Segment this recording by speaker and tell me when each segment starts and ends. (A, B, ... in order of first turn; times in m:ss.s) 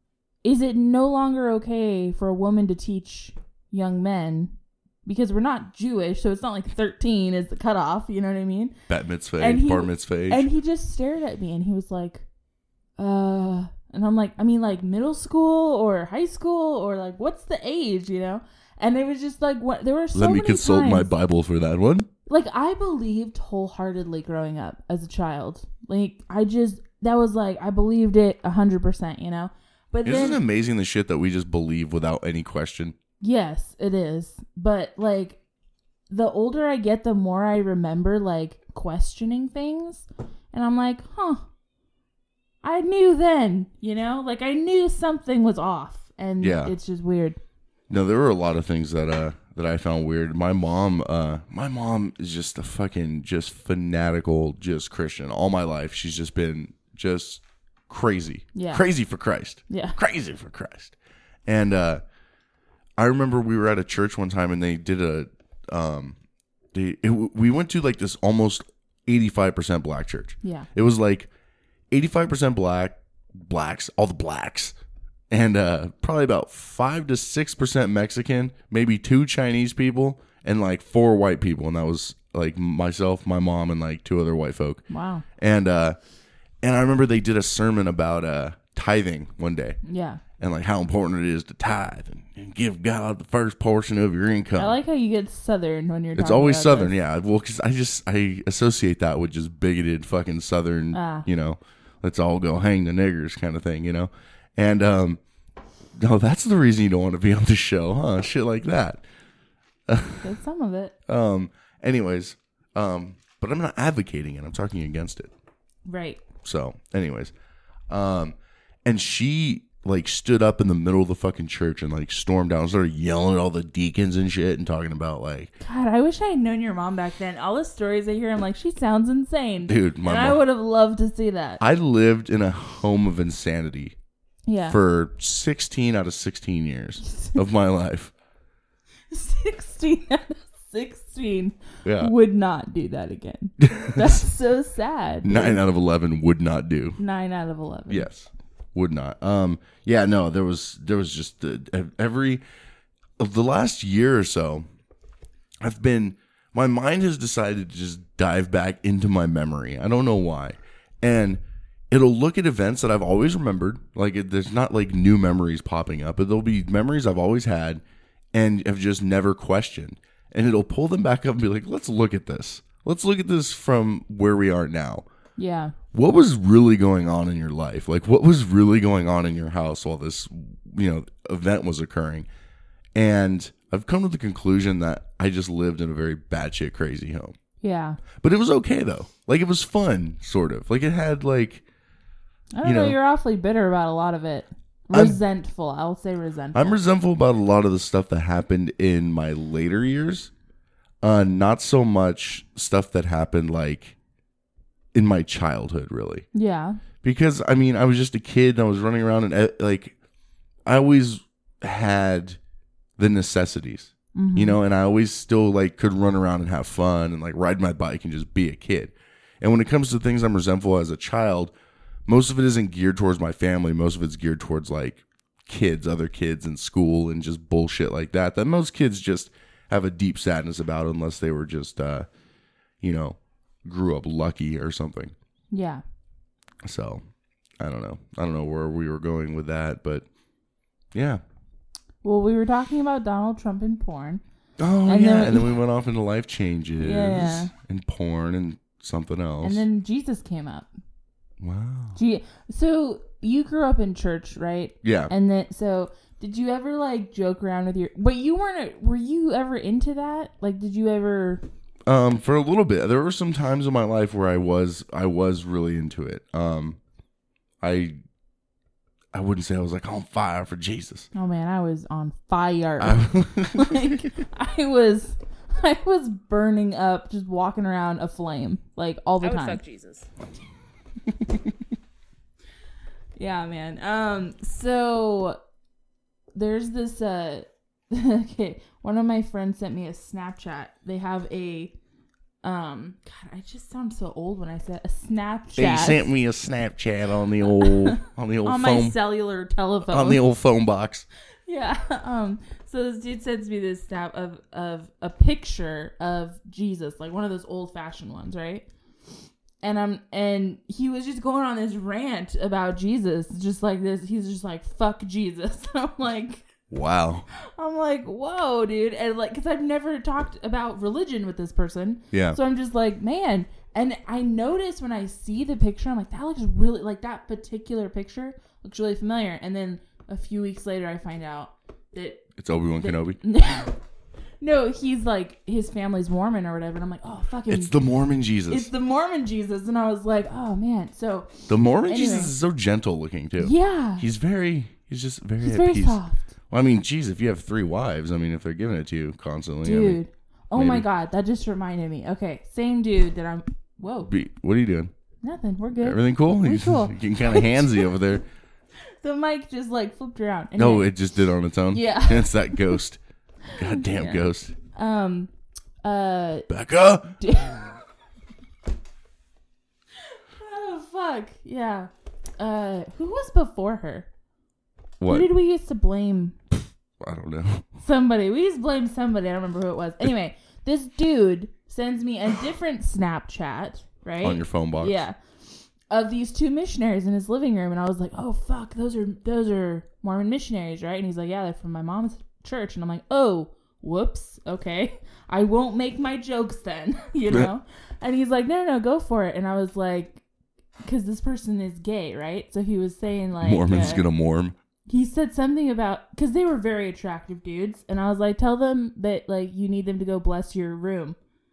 0:00.4-0:04.5 A
0:05.0-0:08.7 A
0:08.9-0:10.5 B
0:09.4-0:12.2 A
0:13.0-0:21.1 A
0:20.1-0:22.1 B
0:22.3-0:30.4 A
0:30.0-0:32.9 B
0:33.2-0:35.4 A
0:36.1-0:41.4 A
0:42.6-0:47.4 A
0:46.4-0:46.7 B
0:47.9-1:00.9 B
0:58.5-0:58.8 A
0:59.7-1:00.0 A
1:01.4-1:02.0 B
1:03.0-1:06.2 B
1:06.7-1:11.3 B
1:10.4-1:10.7 A
1:11.9-1:14.8 B
1:15.3-1:24.8 B
1:24.9-1:25.2 A
1:25.4-1:26.0 B
1:26.6-1:29.8 B
1:29.8-1:30.2 A
1:30.4-1:34.8 B
1:34.6-1:36.9 A
1:36.1-1:45.2 B
1:40.9-1:41.3 A
1:46.0-1:49.0 B
1:49.9-1:50.3 B
1:50.2-1:50.9 A
1:51.1-1:55.3 B
1:55.8-1:56.2 A
1:56.4-1:57.3 B
1:57.9-2:05.5 B
2:05.6-2:11.6 A
2:09.6-2:10.4 B
2:11.6-2:13.9 B
2:14.5-2:14.8 A
2:14.7-2:18.1 B
2:17.0-2:17.4 A
2:19.1-2:25.6 A
2:21.8-2:22.1 B
2:23.6-2:24.2 B
2:25.2-2:27.0 B
2:27.0-2:28.1 A
2:27.9-2:32.4 B
2:33.2-2:34.6 B
2:35.6-2:47.8 B
2:48.3-2:55.0 B
2:55.4-2:55.7 A
2:55.9-3:02.3 B
3:02.9-3:07.3 B
3:07.6-3:08.0 A
3:08.1-3:11.6 B
3:12.5-3:16.8 A
3:12.6-3:13.0 B
3:14.9-3:15.2 B
3:16.5-3:20.3 B
3:21.0-3:23.9 B
3:24.9-3:26.2 B
3:26.3-3:26.8 A
3:27.0-3:30.0 B
3:30.6-3:32.4 B
3:33.0-3:41.5 B
3:34.1-3:34.6 A
3:42.1-3:52.1 B
3:52.8-3:55.1 B
3:55.5-3:55.8 A
3:56.6-3:57.0 B
3:57.6-4:00.0 B
4:00.9-4:01.2 B
4:02.0-4:04.2 A
4:04.6-4:09.6 B
4:04.8-4:05.6 A
4:06.8-4:07.5 A
4:09.4-4:10.7 A
4:11.4-4:12.0 B
4:12.0-4:21.4 A
4:14.8-4:15.1 B
4:21.8-4:26.8 B
4:27.6-4:28.0 B
4:29.1-4:31.1 B
4:31.1-4:39.6 A
4:32.8-4:34.1 B
4:43.2-4:45.4 A
4:46.3-4:51.7 A
4:52.4-4:56.0 A
4:55.6-4:59.0 B
4:57.5-5:00.2 A
4:59.9-5:01.0 B
5:01.5-5:08.6 A
5:09.6-5:16.4 A
5:16.7-5:17.3 B
5:17.5-5:32.3 A
5:22.1-5:22.4 B
5:32.4-5:33.2 B
5:32.8-5:33.8 A
5:34.4-5:37.7 A
5:37.5-5:38.7 B
5:38.5-5:42.3 A
5:41.5-5:50.0 B
5:43.4-5:44.1 A
5:45.4-5:46.3 A
5:49.6-5:54.1 A
5:50.5-5:50.9 B
5:54.0-5:54.9 B
5:55.2-5:57.8 A
5:55.8-5:58.2 B
5:59.0-6:00.9 A
6:00.6-6:03.0 B
6:01.7-6:02.8 A
6:03.5-6:05.3 A
6:03.5-6:04.5 B
6:05.8-6:06.5 A
6:06.5-6:07.2 B
6:07.2-6:07.8 A
6:10.4-6:14.1 A
6:15.0-6:15.3 B
6:15.1-6:16.4 A
6:17.0-6:17.7 B
6:17.8-6:25.2 A
6:24.2-6:25.0 B
6:25.9-6:40.2 A
6:40.8-6:44.0 A
6:43.4-6:44.5 B
6:44.9-6:51.2 A